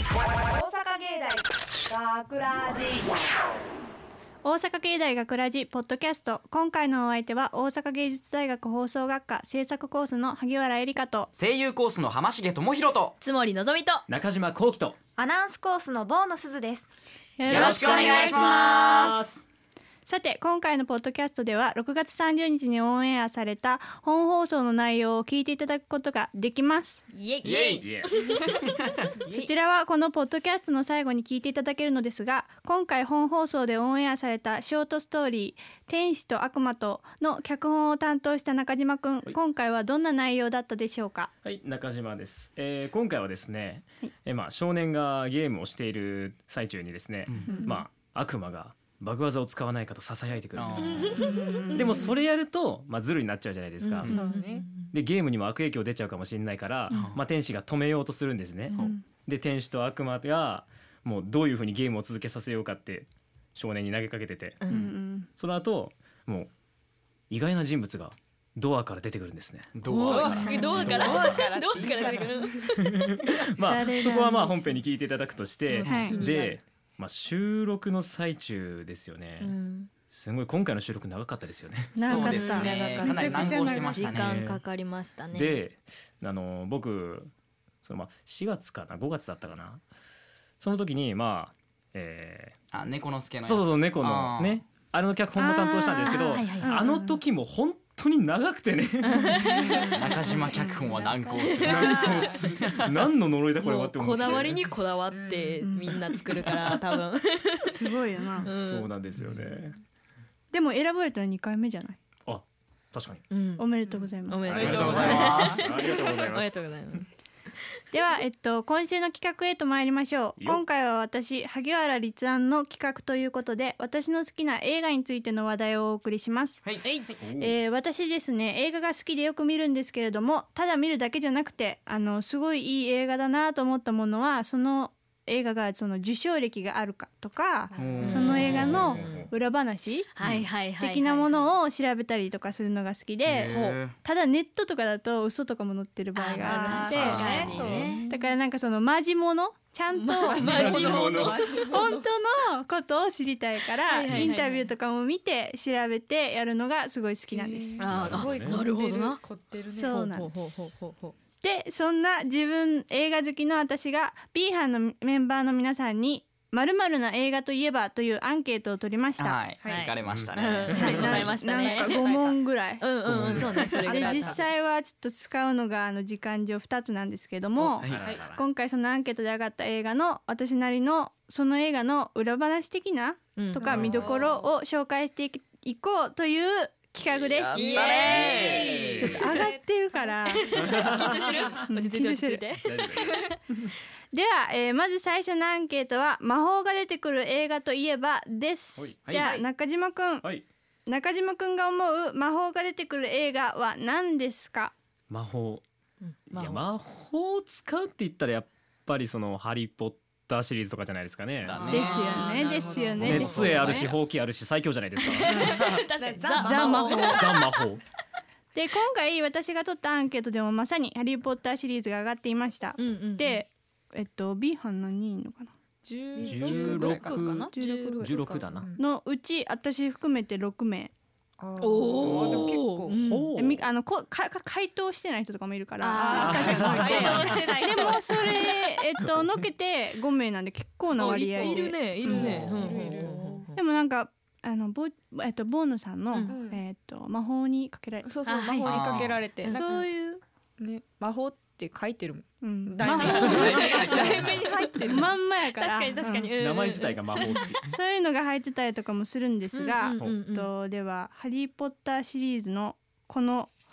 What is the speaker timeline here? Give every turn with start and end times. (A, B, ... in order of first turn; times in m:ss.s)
0:00.5-0:03.1 A
0:04.4-0:11.3 B
0:11.4-0:13.2 C
0:13.2-0:14.0 D
0:14.1-0:15.0 E
0:15.2-0:16.8 F
0:17.4-0:18.9 B
0:17.5-0:19.3 C
0:17.5-0:19.4 E
0:17.6-0:19.0 D
0:20.0-0:27.0 B
0:27.1-0:28.5 D
0:27.4-0:27.8 C
0:27.8-0:28.4 E
0:29.3-0:41.3 B
0:41.4-0:54.1 E
0:47.5-0:47.8 B
0:50.5-0:51.1 C
0:50.8-0:52.1 D
0:51.2-0:52.1 B
0:53.8-0:54.9 D
0:54.1-0:54.7 F
0:54.9-1:04.6 E
0:56.9-0:57.2 C
0:58.8-0:59.0 B
1:04.7-1:05.3 B
1:05.4-1:06.5 E
1:07.3-1:09.7 E
1:09.7-1:10.9 C
1:09.8-1:12.9 D
1:10.1-1:12.7 F
1:10.7-1:11.5 E
1:12.8-1:22.3 E
1:13.6-1:14.7 B
1:15.7-1:16.6 D
1:15.8-1:16.2 B
1:19.4-1:19.9 D
1:22.0-1:23.9 B
1:22.1-1:24.4 C
1:22.1-1:25.6 D
1:22.8-1:23.9 F
1:24.1-1:24.6 E
1:25.3-1:27.3 E
1:27.8-1:29.8 E
1:30.6-1:32.6 E
1:32.7-1:34.6 C
1:33.4-1:39.5 E
1:35.4-1:37.2 B
1:36.1-1:36.8 D
1:39.0-1:40.6 D
1:39.4-1:40.0 B
1:39.6-1:39.9 F
1:39.9-1:42.9 C
1:40.4-1:42.4 F
1:41.3-1:42.3 D
1:41.6-1:44.7 E
1:43.6-1:47.9 D
1:45.1-1:45.7 F
1:45.6-1:46.0 B
1:47.7-1:48.5 B
1:48.4-1:48.9 D
1:48.4-1:49.8 E
1:50.5-1:52.0 B
1:52.2-1:53.2 E
1:53.3-1:53.7 D
1:53.6-1:55.3 B
1:54.2-1:57.1 D
1:54.4-1:57.0 E
1:54.5-1:55.6 C
1:57.9-2:06.6 B
2:00.4-2:00.6 E
2:06.8-2:07.1 D
2:07.2-2:07.5 E
2:07.4-2:20.1 B
2:17.7-2:18.3 F
2:17.7-2:19.2 C
2:18.0-2:19.0 D
2:18.3-2:19.3 E
2:20.2-2:21.5 D
2:20.7-2:27.5 B
2:23.2-2:24.0 C
2:23.4-2:23.8 D
2:26.1-2:28.1 D
2:26.4-2:28.3 F
2:26.9-2:27.6 C
2:27.0-2:27.9 E
2:28.1-2:37.9 B
2:29.9-2:31.7 D
2:30.3-2:32.1 F
2:30.3-2:31.4 E
2:33.9-2:34.7 D
2:37.3-2:40.0 F
2:37.8-2:39.2 D
2:37.9-2:38.6 E
2:39.7-2:40.7 B
2:39.9-2:41.1 D
2:41.4-2:49.4 B
2:49.2-2:51.3 C
2:49.6-2:49.9 F
2:49.6-2:52.0 D
2:50.0-2:51.3 E
2:50.8-3:08.3 B
2:51.5-2:52.4 F
2:52.8-2:54.4 D
2:53.0-2:53.8 E
2:53.9-2:54.4 F
2:57.6-2:58.4 E
2:57.8-2:58.0 C
3:03.4-3:03.8 D
3:03.6-3:04.5 F
3:03.7-3:04.2 E
3:07.1-3:09.1 C
3:07.5-3:08.7 D
3:07.6-3:10.3 F
3:08.5-3:09.2 E
3:09.0-3:10.8 B
3:10.3-3:13.4 D
3:10.6-3:11.6 E
3:11.7-3:12.4 B
3:12.6-3:13.3 E
3:14.1-3:20.3 B
3:18.8-3:19.2 E
3:19.0-3:19.4 C
3:19.1-3:19.4 F
3:20.8-3:24.7 B
3:25.1-3:25.6 E
3:26.3-3:31.7 E
3:31.5-3:32.0 C
3:31.5-3:33.9 D
3:31.6-3:33.4 F
3:31.7-3:33.9 B
3:33.0-3:35.6 E
3:35.0-3:37.3 D
3:35.3-3:37.3 F
3:36.4-3:37.4 B
3:37.1-3:37.8 E
3:38.5-3:45.5 B
3:42.8-3:43.4 D
3:45.8-3:48.8 F
3:46.2-3:48.0 D
3:46.2-3:48.7 E
3:47.5-3:48.2 B
3:48.8-3:50.9 B
3:51.4-3:53.0 F
3:51.6-3:53.3 D
3:52.9-3:53.6 E
3:53.3-4:02.5 B
3:55.8-3:57.5 D
3:56.0-3:58.4 F
3:56.2-3:57.4 E
4:00.9-4:03.1 F
4:01.0-4:03.6 D
4:02.0-4:03.4 E
4:03.5-4:08.1 B
4:06.2-4:06.6 F
4:08.0-4:09.8 F
4:08.2-4:09.7 D
4:08.6-4:09.2 C
4:09.5-4:10.2 B
4:10.6-4:15.1 F
4:12.4-4:14.0 B
4:13.0-4:17.5 D
4:13.2-4:14.4 C
4:14.8-4:16.3 B
4:16.4-4:17.8 E
4:17.6-4:23.5 B
4:19.5-4:20.5 D